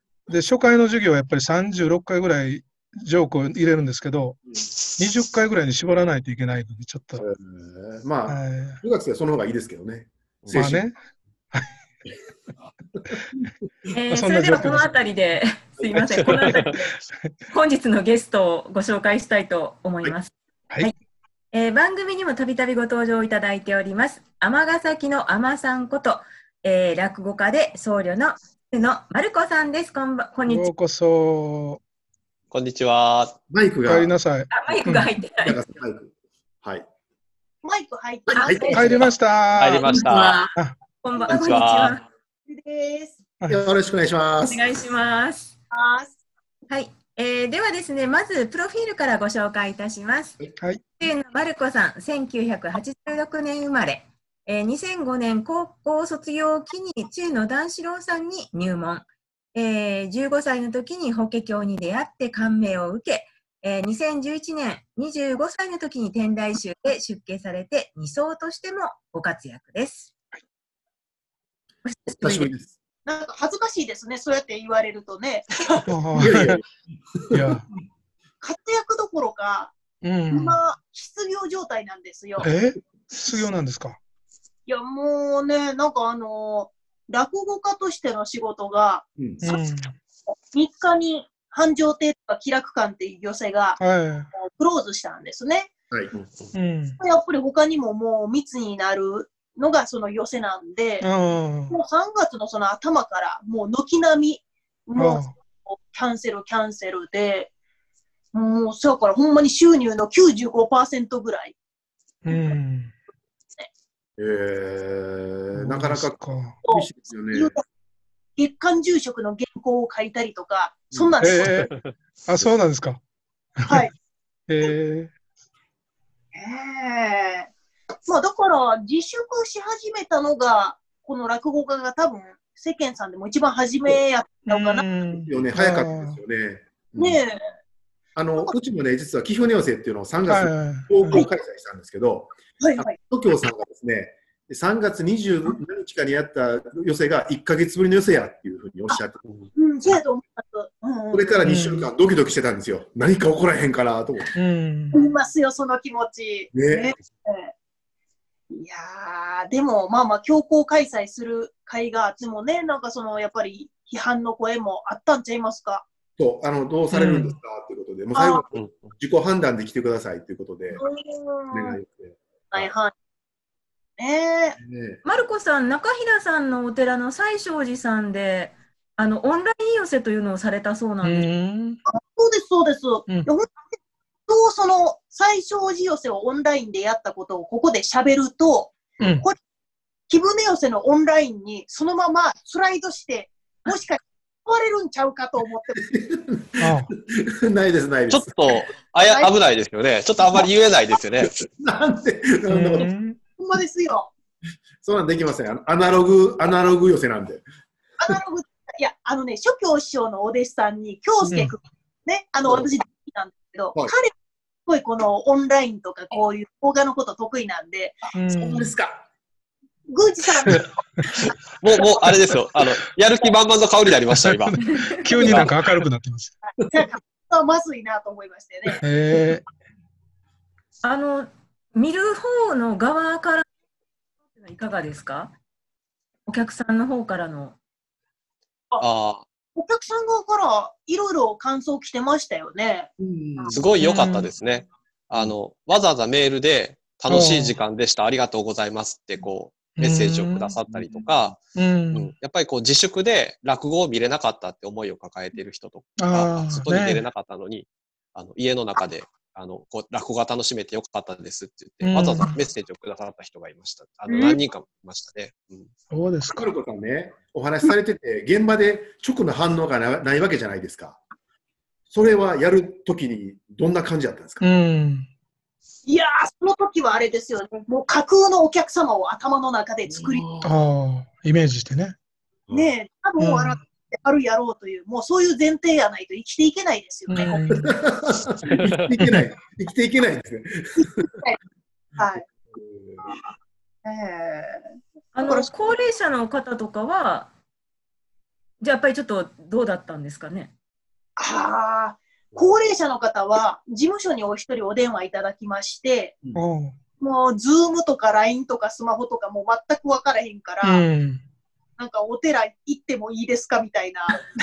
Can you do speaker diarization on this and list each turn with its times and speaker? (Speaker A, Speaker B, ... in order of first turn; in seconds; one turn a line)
Speaker A: 0.3-4.4
Speaker A: 5.0-7.3
Speaker B: 7.2-10.8
Speaker A: 8.3-8.8
Speaker A: 10.5-11.0
Speaker C: 13.9-16.9
Speaker A: 14.1-14.9
Speaker D: 16.2-16.8
Speaker C: 17.5-20.9
Speaker C: 21.5-30.7
Speaker A: 30.5-31.8
Speaker D: 32.5-33.4
Speaker B: 33.5-34.1
Speaker A: 33.9-35.1
Speaker C: 34.5-35.6
Speaker B: 35.4-36.9
Speaker E: 37.6-39.1
Speaker B: 38.3-38.9
Speaker A: 38.7-40.8
Speaker D: 39.6-40.4
Speaker C: 39.9-40.4
Speaker B: 40.1-40.4
Speaker C: 41.0-42.0
Speaker D: 41.3-42.0
Speaker E: 42.5-43.2
Speaker A: 43.4-43.7
Speaker B: 43.5-44.6
Speaker C: 44.5-45.5
Speaker E: 45.7-46.1
Speaker C: 46.7-50.4
Speaker C: 51.0-70.1
Speaker C: 71.9-72.5
Speaker B: 72.1-72.8
Speaker E: 73.1-75.6
Speaker A: 75.9-76.6
Speaker B: 76.2-76.6
Speaker B: 77.3-77.6
Speaker A: 77.3-77.7
Speaker E: 78.4-79.8
Speaker A: 80.0-80.6
Speaker E: 80.3-82.5
Speaker A: 82.4-84.0
Speaker E: 84.7-89.6
Speaker A: 89.4-90.0
Speaker E: 90.5-93.8
Speaker A: 93.8-94.3
Speaker E: 94.3-95.7
Speaker D: 96.2-96.5
Speaker A: 96.5-97.0
Speaker E: 97.0-101.1
Speaker A: 101.0-101.8
Speaker E: 101.7-107.5
Speaker A: 105.0-105.3
Speaker E: 108.3-111.5
Speaker A: 112.2-113.0
Speaker E: 112.3-112.6
Speaker B: 114.2-117.6
Speaker A: 115.5-116.6
Speaker E: 116.7-117.6
Speaker E: 118.4-121.7
Speaker A: 121.2-121.7
Speaker A: 122.3-123.0
Speaker A: 123.6-123.9
Speaker A: 124.5-125.1
Speaker E: 126.3-127.5
Speaker E: 128.1-134.9
Speaker A: 134.5-136.2
Speaker B: 135.1-137.2
Speaker E: 137.0-137.4
Speaker B: 138.2-149.2
Speaker A: 140.3-141.3
Speaker E: 142.6-142.9
Speaker E: 149.6-151.4
Speaker B: 151.1-154.3
Speaker A: 151.4-151.9
Speaker A: 154.3-155.0
Speaker E: 154.9-157.5
Speaker B: 156.5-156.9
Speaker E: 158.5-165.9
Speaker B: 166.2-170.8
Speaker A: 167.0-167.3
Speaker E: 168.2-168.4
Speaker D: 168.5-168.9
Speaker E: 170.7-171.8
Speaker B: 171.5-172.7
Speaker E: 172.5-172.9
Speaker E: 174.0-174.6
Speaker B: 174.6-175.0
Speaker C: 175.1-181.3
Speaker A: 181.0-181.8
Speaker E: 181.9-183.7
Speaker E: 184.3-189.4
Speaker E: 190.1-195.8
Speaker B: 195.8-198.3
Speaker A: 196.6-196.9
Speaker D: 198.1-201.3
Speaker E: 199.1-199.3
Speaker B: 201.3-202.9
Speaker A: 202.5-203.2
Speaker E: 203.4-204.1
Speaker B: 204.8-207.4
Speaker E: 208.0-214.1
Speaker A: 211.3-211.6
Speaker E: 214.7-218.1
Speaker A: 218.2-218.7
Speaker B: 218.3-219.1
Speaker E: 219.9-220.7
Speaker D: 221.6-224.6
Speaker A: 224.2-226.3
Speaker D: 225.2-225.5
Speaker E: 226.5-228.8
Speaker A: 228.8-229.4
Speaker C: 230.8-233.4
Speaker C: 234.4-235.3
Speaker C: 236.3-237.6
Speaker D: 238.8-239.2
Speaker E: 239.6-243.5
Speaker B: 243.0-243.7
Speaker D: 243.5-251.4
Speaker A: 243.8-244.3
Speaker A: 247.1-247.6
Speaker A: 249.8-250.6
Speaker B: 250.7-251.1
Speaker A: 251.6-252.1
Speaker D: 251.9-265.7
Speaker A: 256.0-257.1
Speaker A: 261.8-262.4
Speaker E: 264.1-264.4
Speaker A: 265.9-266.5
Speaker B: 266.3-271.0
Speaker B: 271.9-274.4
Speaker A: 274.4-275.1
Speaker E: 275.9-280.3
Speaker B: 279.9-280.5
Speaker A: 280.4-281.9
Speaker E: 282.5-287.5
Speaker A: 283.2-283.7
Speaker A: 287.1-287.7
Speaker B: 287.5-291.0
Speaker D: 288.5-288.9
Speaker A: 289.0-289.3
Speaker E: 290.8-291.4
Speaker E: 292.0-292.2
Speaker B: 292.5-293.1
Speaker E: 293.9-294.6
Speaker C: 295.1-297.3
Speaker E: 295.2-295.5
Speaker C: 298.6-300.5
Speaker E: 301.2-306.2
Speaker A: 306.3-306.8
Speaker E: 307.0-310.8
Speaker A: 310.6-311.2
Speaker E: 311.8-314.2